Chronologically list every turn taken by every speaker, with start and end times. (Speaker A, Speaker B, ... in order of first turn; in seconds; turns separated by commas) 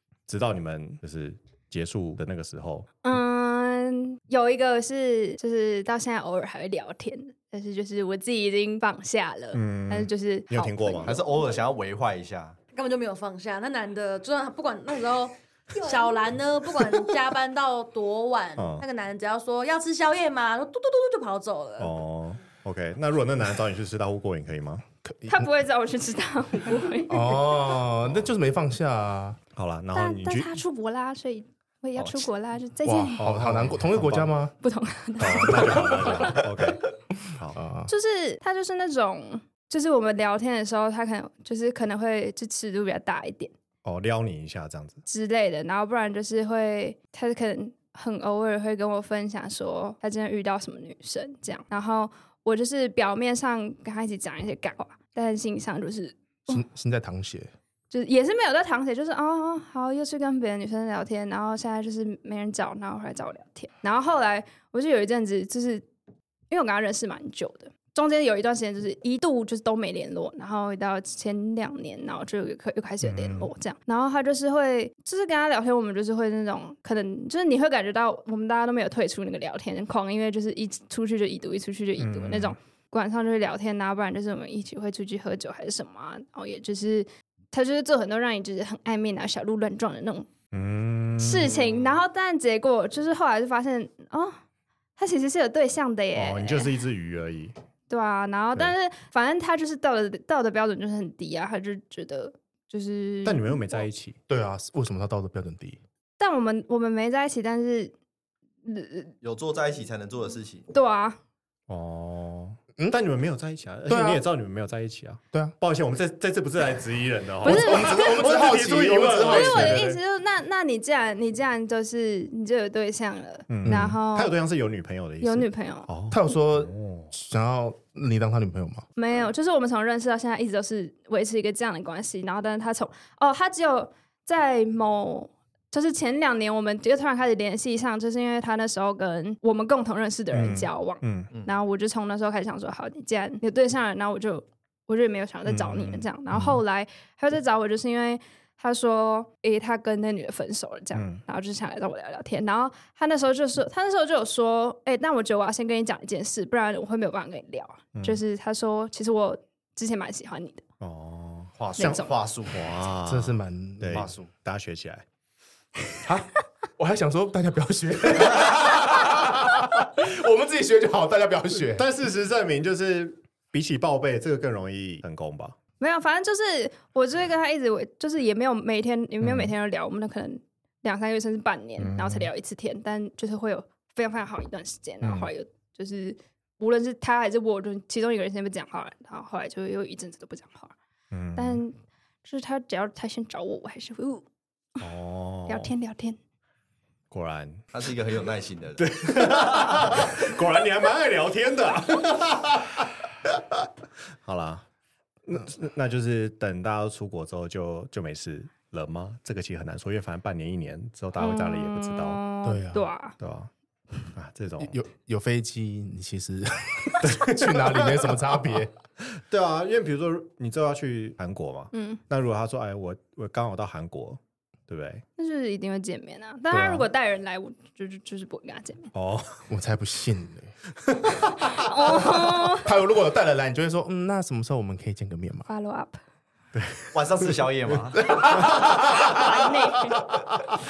Speaker A: 0.3-3.0, Speaker B: 3.0-11.1, Speaker A: 9.5-11.1, Speaker C: 11.0-12.6, Speaker D: 12.7-21.9, Speaker A: 18.6-18.9, Speaker A: 21.8-24.8, Speaker E: 25.1-25.5, Speaker B: 25.3-27.6, Speaker E: 27.1-29.4, Speaker A: 28.0-28.3, Speaker A: 29.5-30.6, Speaker B: 29.9-33.2, Speaker C: 32.0-32.2, Speaker E: 32.8-34.5, Speaker A: 33.2-34.3, Speaker B: 34.6-36.5, Speaker A: 35.2-37.6, Speaker E: 35.5-36.4, Speaker E: 37.5-37.9, Speaker B: 37.9-43.5, Speaker A: 43.8-45.0, Speaker B: 45.0-56.6, Speaker E: 56.5-57.5, Speaker B: 57.9-65.8, Speaker B: 66.5-90.3, Speaker A: 73.0-73.5, Speaker A: 82.0-82.6, Speaker A: 90.5-92.0, Speaker B: 91.2-94.3, Speaker B: 95.0-96.7, Speaker A: 96.1-97.5, Speaker B: 97.9-103.8, Speaker A: 103.2-104.2, Speaker E: 104.3-105.8, Speaker B: 106.2-107.9, Speaker B: 108.6-109.1, Speaker C: 109.2-110.7, Speaker B: 110.7-111.2, Speaker A: 111.7-120.0, Speaker E: 113.9-114.2, Speaker B: 117.4-118.2, Speaker E: 117.4-119.8, Speaker B: 119.2-124.3, Speaker A: 123.5-127.1, Speaker E: 123.6-124.0, Speaker B: 125.2-125.9, Speaker E: 126.1-128.8, Speaker B: 128.9-160.6, Speaker A: 140.3-141.3, Speaker A: 145.4-146.6, Speaker A: 150.9-151.2, Speaker A: 157.9-158.2, Speaker A: 160.8-165.0, Speaker C: 161.6-162.6, Speaker B: 161.8-162.1, Speaker E: 163.1-164.1, Speaker C: 163.9-164.3, Speaker E: 166.0-171.8, Speaker A: 171.5-175.6, Speaker B: 175.8-190.7, Speaker A: 179.2-179.5, Speaker A: 181.8-182.3, Speaker A: 185.0-185.3, Speaker A: 191.1-191.6, Speaker B: 191.3-194.2, Speaker A: 194.8-195.7, Speaker B: 195.5-196.2, Speaker A: 197.1-197.6, Speaker C: 197.7-200.1, Speaker A: 198.8-203.7, Speaker A: 204.2-204.7, Speaker A: 205.2-212.2, Speaker B: 211.2-213.1, Speaker E: 212.4-212.9, Speaker A: 213.2-213.5, Speaker A: 214.1-214.7, Speaker E: 214.7-218.7, Speaker A: 217.0-225.0, Speaker B: 221.7-222.0, Speaker B: 225.2-228.9, Speaker A: 226.5-226.9, Speaker A: 228.9-229.5, Speaker E: 229.5-230.5, Speaker A: 230.8-231.5, Speaker B: 231.4-232.7, Speaker E: 231.9-235.5, Speaker B: 235.5-236.0, Speaker A: 236.5-236.9, Speaker C: 236.9-238.2, Speaker E: 238.0-239.3, Speaker B: 239.1-240.1